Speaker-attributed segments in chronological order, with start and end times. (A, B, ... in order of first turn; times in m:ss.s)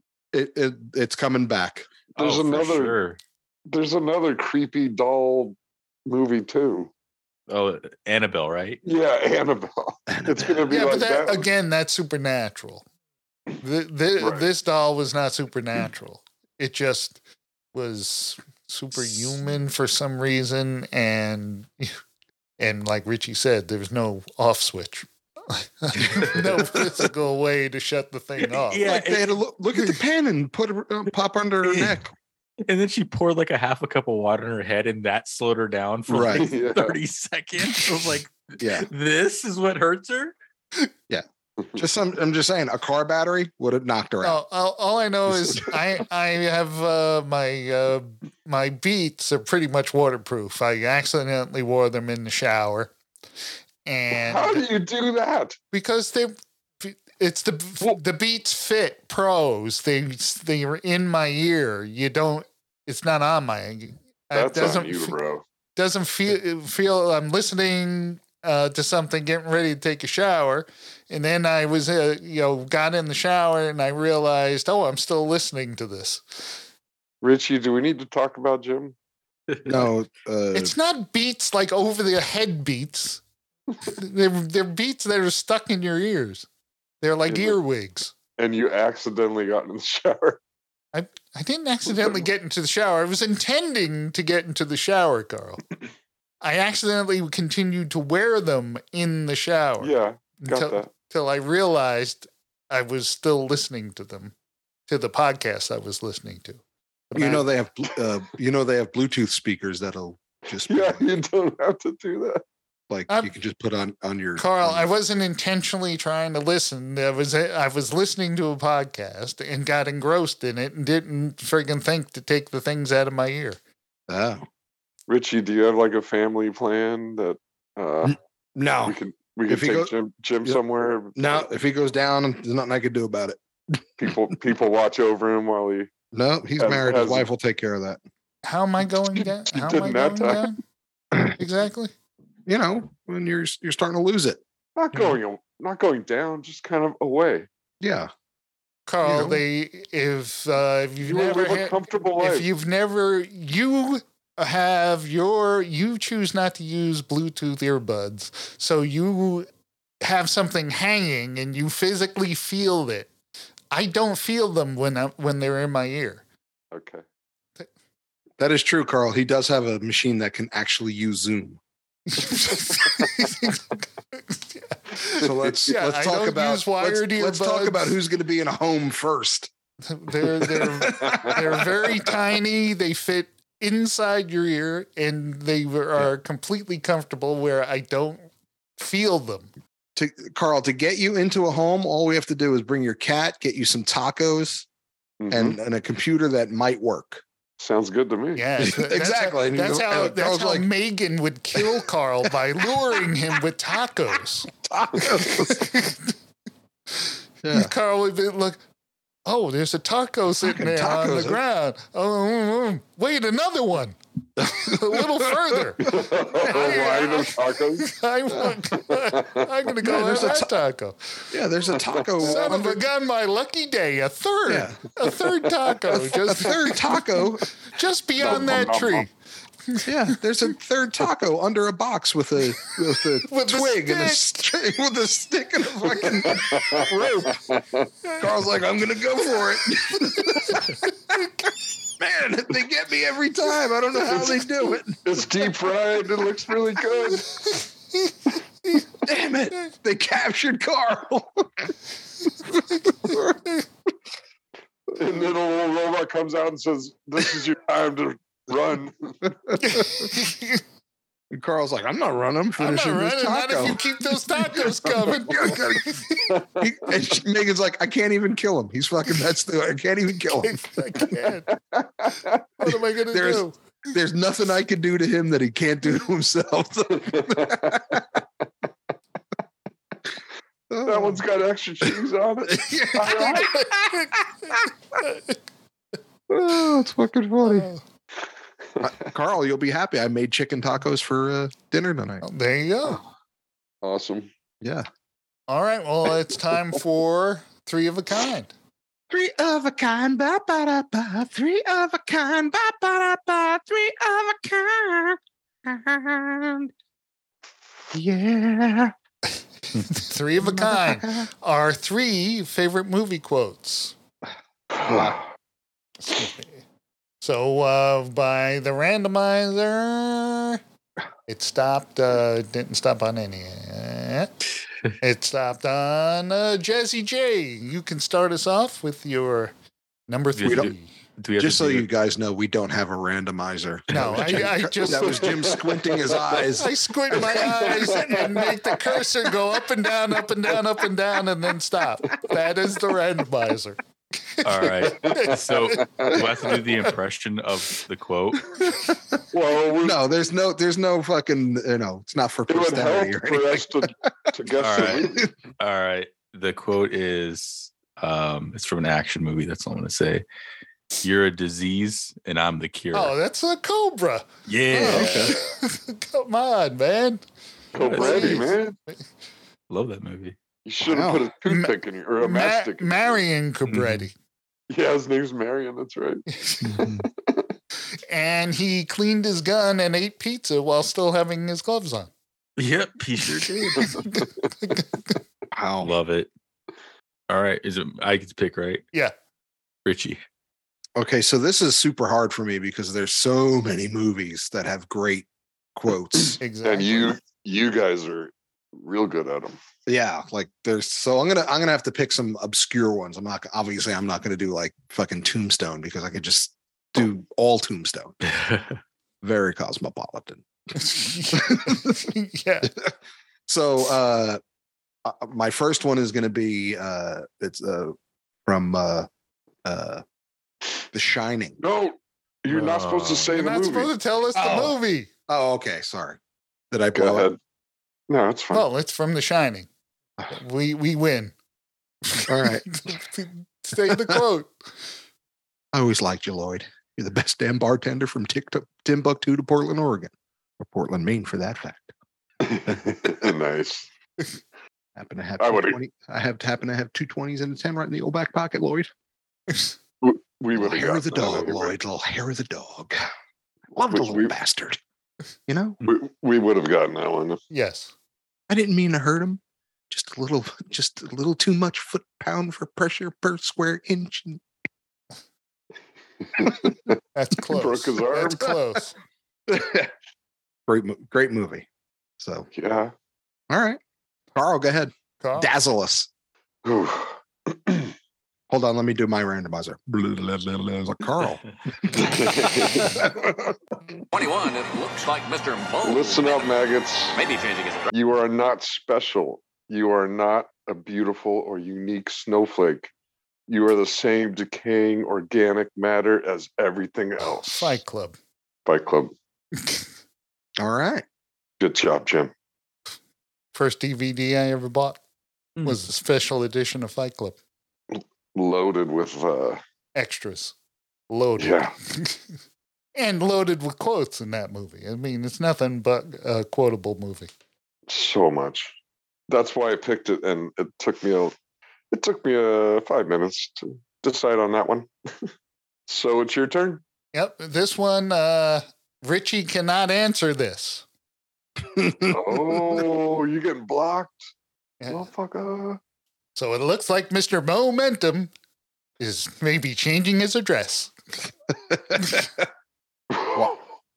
0:00.3-0:01.9 A
0:02.2-0:03.2 B
0:02.2-0:03.0 C
0:03.7-0:06.9 C
0:07.5-0:08.8 B
0:08.8-0:11.5 C
0:10.1-0:10.6 A
0:10.7-0:12.8 D
0:13.6-0:17.2 D
0:14.2-0:14.4 C
0:17.7-0:22.0 D
0:22.6-0:28.8 D
0:28.7-0:30.0 B
0:28.8-0:32.1 A
0:31.6-0:31.9 B
0:32.7-0:40.3 B
0:36.1-0:36.5 A
0:36.2-0:37.0 C
0:38.6-0:38.9 A
0:41.1-0:44.4 A
0:44.2-0:52.9 D
0:53.8-0:54.7 D
0:54.1-0:55.6 C
0:55.7-1:05.2 D
1:04.3-1:05.4 C
1:05.8-1:16.5 D
1:17.2-1:18.9 C
1:19.5-1:19.9 B
1:19.6-1:20.7 A
1:20.5-1:23.2 D
1:23.8-1:26.5 D
1:27.0-1:28.1 D
1:27.3-1:27.6 C
1:28.4-1:30.4 C
1:30.9-1:35.6 D
1:31.9-1:32.2 C
1:36.4-1:44.3 D
1:39.8-1:40.9 C
1:44.9-1:47.5 D
1:47.1-1:51.1 A
1:50.6-1:52.4 C
1:52.9-1:54.9 A
1:54.4-2:03.6 D
2:04.1-2:04.4 A
2:05.1-2:08.2 C
2:08.0-2:09.9 A
2:08.8-2:11.4 C
2:11.1-2:13.4 A
2:14.0-2:15.9 C
2:16.1-2:18.0 A
2:16.6-2:17.2 C
2:18.4-2:20.6 D
2:19.5-2:20.5 C
2:21.4-2:21.9 D
2:22.4-2:24.4 A
2:24.8-2:27.5 C
2:27.8-2:28.1 A
2:28.9-2:39.5 D
2:29.0-2:29.4 A
2:31.0-2:32.5 C
2:40.0-2:43.1 D
2:43.7-2:46.2 D
2:46.7-2:47.0 C
2:48.4-2:51.6 A
2:52.1-2:53.6 D
2:54.3-2:58.0 D
2:55.2-2:59.5 A
2:59.9-3:09.5 D
3:00.4-3:01.9 A
3:01.0-3:01.4 C
3:10.0-3:14.6 A
3:15.2-3:15.6 C
3:15.3-3:17.2 A
3:17.6-3:18.4 C
3:18.4-3:26.1 D
3:18.6-3:20.7 A
3:24.6-3:25.7 A
3:27.4-3:27.7 A
3:27.5-3:28.6 D
3:29.2-3:41.3 D
3:30.4-3:31.4 A
3:34.4-3:36.8 A
3:35.8-3:37.9 C
3:38.8-3:39.5 C
3:39.8-3:40.6 A
3:41.3-3:42.8 A
3:41.8-3:42.5 C
3:42.2-3:49.1 D
3:44.5-3:44.8 A
3:45.9-3:47.5 A
3:48.2-3:49.1 C
3:49.7-3:50.2 D
3:49.8-3:57.4 A
3:53.3-3:54.2 D
3:56.0-3:57.9 C
3:58.2-4:01.2 A
4:00.1-4:00.6 D
4:02.0-4:05.0 A
4:04.0-4:07.3 C
4:09.0-4:11.7 A
4:13.0-4:13.3 A
4:14.9-4:19.3 C
4:19.5-4:20.1 A
4:19.6-4:20.6 D
4:21.3-4:26.0 A
4:22.6-4:26.3 D
4:26.3-4:27.0 C
4:26.6-4:30.6 A
4:30.4-4:31.5 D
4:31.6-4:32.4 C
4:32.6-4:33.6 D
4:33.1-4:38.0 A
4:37.0-4:38.0 C
4:40.7-4:41.2 A
4:40.8-4:43.5 C
4:42.5-4:44.7 A
4:43.0-4:45.4 D
4:46.3-4:47.7 A
4:47.4-4:47.8 D
4:48.8-4:52.2 A
4:52.2-4:53.0 D
4:53.8-4:54.3 C
4:54.6-4:54.8 A
4:55.5-4:58.5 D
4:59.1-5:06.7 A
5:07.9-5:08.9 A
5:09.8-5:13.9 D
5:10.4-5:11.3 A
5:14.7-5:15.2 C
5:14.8-5:15.2 A
5:16.0-5:16.6 D
5:17.2-5:20.6 D
5:21.3-5:24.3 D
5:25.0-5:29.5 D
5:30.1-5:30.9 D
5:30.4-5:31.9 B
5:30.4-5:30.7 A
5:31.4-5:37.5 A
5:33.9-5:34.5 B
5:33.9-5:35.3 D
5:34.9-5:36.6 C
5:36.5-5:46.6 D
5:37.1-5:38.9 C
5:44.4-5:48.5 B
5:44.8-5:46.3 C
5:48.6-5:48.9 A
5:49.3-5:50.0 C
5:49.8-5:53.9 A
5:52.5-5:55.3 C
5:54.6-6:00.2 B
5:55.0-5:55.2 A
6:01.0-6:03.1 B
6:02.9-6:04.3 D
6:04.5-6:05.4 B
6:04.7-6:05.4 A
6:04.9-6:07.2 D
6:07.7-6:08.8 C
6:07.8-6:08.6 B
6:07.8-6:09.0 D
6:09.7-6:10.4 B
6:10.6-6:13.2 C
6:10.8-6:11.2 A
6:11.5-6:14.1 D
6:13.7-6:14.0 B
6:14.7-6:16.2 C
6:16.3-6:16.9 D
6:16.6-6:17.0 A
6:18.1-6:22.1 D
6:22.6-6:24.0 B
6:23.8-6:24.8 D
6:25.5-6:25.9 A
6:25.8-6:26.3 B
6:27.3-6:28.8 B
6:29.8-6:30.2 B
6:31.0-6:36.4 A
6:36.4-6:37.2 D
6:36.6-6:39.6 C
6:39.9-6:48.2 A
6:48.2-6:48.8 B
6:49.2-6:50.4 A
6:50.8-6:52.7 D
6:51.3-6:52.1 A
6:52.6-6:52.9 A
6:53.5-6:54.4 A
6:55.0-6:57.9 A
6:58.4-6:59.1 A
6:59.6-7:00.0 A
7:00.9-7:01.6 A
7:01.6-7:03.9 C
7:02.5-7:03.4 B
7:03.3-7:05.1 D
7:04.4-7:04.7 A
7:05.3-7:06.2 A
7:06.7-7:07.3 A
7:06.9-7:07.4 C
7:08.1-7:08.6 C
7:08.5-7:09.7 D
7:10.3-7:11.3 D
7:12.1-7:14.5 D
7:12.3-7:12.7 A
7:13.9-7:14.2 A
7:15.7-7:21.9 A
7:22.4-7:23.8 C
7:25.0-7:28.9 A
7:25.4-7:25.8 C
7:30.0-7:31.7 C
7:30.5-7:33.0 A
7:33.7-7:34.8 A
7:33.9-7:34.3 C
7:35.5-7:35.8 A
7:35.8-7:37.4 C
7:37.5-7:37.9 D
7:38.5-7:44.4 A
7:46.4-7:46.9 C
7:47.1-7:48.9 D
7:47.5-7:48.5 C
7:49.5-7:49.9 A
7:50.7-7:51.6 A
7:52.2-7:52.5 A
7:52.5-7:52.9 C
7:53.5-7:53.8 A
7:54.3-7:56.1 A
7:55.2-7:55.5 D
7:56.6-7:57.9 C
7:58.5-8:03.5 A
8:01.9-8:03.1 C
8:04.1-8:06.5 E
8:05.8-8:07.2 C
8:07.1-8:07.9 E
8:07.9-8:12.9 C
8:13.5-8:17.8 C
8:17.4-8:18.2 D
8:18.6-8:19.1 C
8:20.6-8:21.0 A
8:21.6-8:22.3 C
8:23.5-8:25.0 D
8:25.6-8:27.4 D
8:27.9-8:29.6 C
8:29.9-8:30.5 D
8:31.1-8:32.2 D
8:31.4-8:31.7 C
8:32.9-8:37.3 D
8:37.9-8:38.7 C
8:39.3-8:41.3 C
8:41.9-8:45.3 C
8:45.9-8:46.8 C
8:47.1-8:50.8 D
8:51.7-8:52.8 A
8:52.0-8:54.3 C
8:54.8-8:55.1 D
8:54.9-8:55.8 C
8:56.3-8:58.3 D
8:59.0-9:00.9 D
9:01.7-9:02.5 A
9:03.1-9:03.5 C